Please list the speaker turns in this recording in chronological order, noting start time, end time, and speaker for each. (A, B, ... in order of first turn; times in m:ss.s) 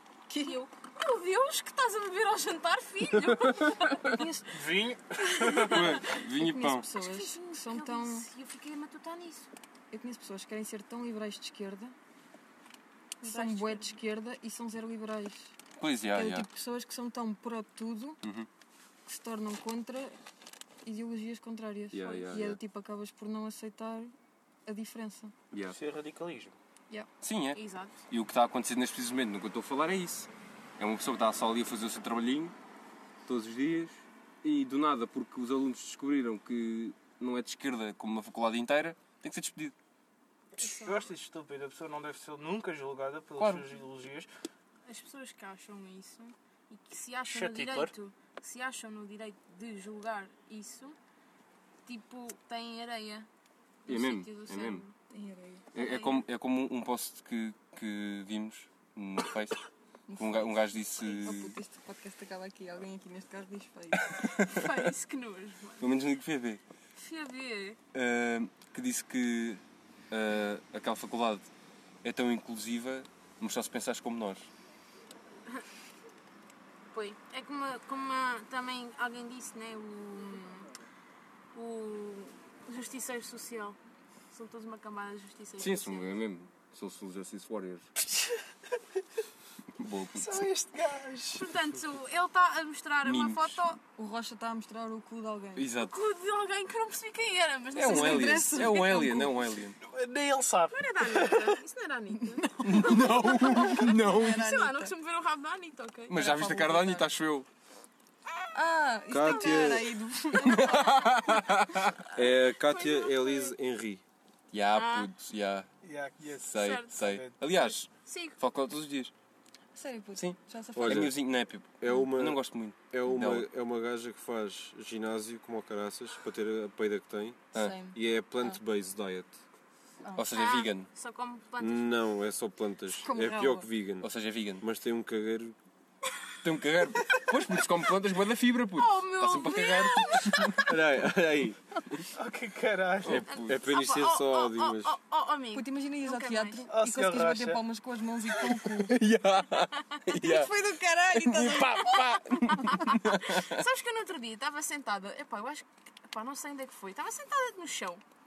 0:00.3-0:00.6 A
0:00.4-0:04.2 B
0:04.1-0:04.5 A
0:04.5-0:06.0 C
0:05.4-0:05.8 B
0:05.6-0:06.9 D
0:06.1-0:08.2 A
0:07.0-0:09.5 B
0:09.9-0:11.9 A
0:13.2-0:13.9 B
0:13.2-0:15.5 A
0:15.8-0:16.5 D
0:16.1-0:18.2 A
0:18.2-0:18.5 D
0:19.0-0:20.2 A
0:20.8-0:24.1 A
0:21.9-0:22.6 D
0:24.6-0:25.3 A
0:25.5-0:25.8 D
0:25.7-0:26.5 C
0:27.2-0:32.5 D
0:27.5-0:28.0 B
0:33.2-0:39.7 D
0:40.6-0:44.3 C
0:40.6-0:41.0 B
0:43.4-0:43.7 D
0:44.9-0:51.0 B
0:47.3-0:47.9 C
0:51.8-0:53.3 B
0:53.8-0:54.9 B
0:53.9-0:54.9 D
0:55.1-0:55.7 A
0:55.7-0:59.6 D
0:55.8-0:56.2 B
1:00.1-1:04.2 A
1:00.1-1:01.6 D
1:03.9-1:04.9 D
1:04.4-1:05.8 B
1:05.8-1:06.6 D
1:07.0-1:07.8 B
1:07.9-1:11.5 D
1:12.0-1:14.5 D
1:16.9-1:20.7 B
1:21.5-1:23.8 B
1:24.3-1:26.1 B
1:25.6-1:27.9 D
1:28.0-1:28.4 C
1:29.8-1:30.5 D
1:30.2-1:31.5 C
1:31.4-1:33.8 B
1:33.0-1:33.7 D
1:34.0-1:35.7 A
1:35.6-1:35.9 D
1:35.8-1:38.7 B
1:37.7-1:39.8 D
1:37.8-1:39.4 A
1:39.8-1:41.6 C
1:40.7-1:46.2 B
1:42.2-1:44.9 A
1:42.6-1:44.4 D
1:46.1-1:47.5 D
1:46.1-1:47.1 A
1:48.5-1:50.9 A
1:49.1-1:49.9 E
1:49.2-1:49.7 B
1:50.4-1:52.0 D
1:50.4-1:51.0 B
1:52.1-1:54.0 E
1:52.6-1:53.5 B
1:54.5-1:55.7 D
1:54.7-1:55.1 B
1:55.8-1:57.4 C
1:56.4-1:59.1 D
1:56.6-1:56.9 B
1:58.0-1:58.4 B
1:59.7-2:01.1 A
2:00.2-2:03.5 D
2:00.8-2:01.2 E
2:01.8-2:09.4 E
2:07.5-2:07.8 D
2:07.5-2:08.6 A
2:10.2-2:10.9 D
2:10.3-2:12.0 B
2:11.6-2:15.6 E
2:13.0-2:13.7 A
2:14.0-2:14.6 D
2:16.4-2:20.7 D
2:18.8-2:20.7 B
2:20.7-2:21.6 E
2:22.1-2:23.2 C
2:23.0-2:24.9 E
2:23.1-2:23.6 D
2:23.3-2:26.6 B
2:25.5-2:29.0 A
2:26.7-2:27.6 C
2:28.4-2:30.6 D
2:30.1-2:32.6 A
2:31.1-2:33.6 D
2:32.5-2:38.0 B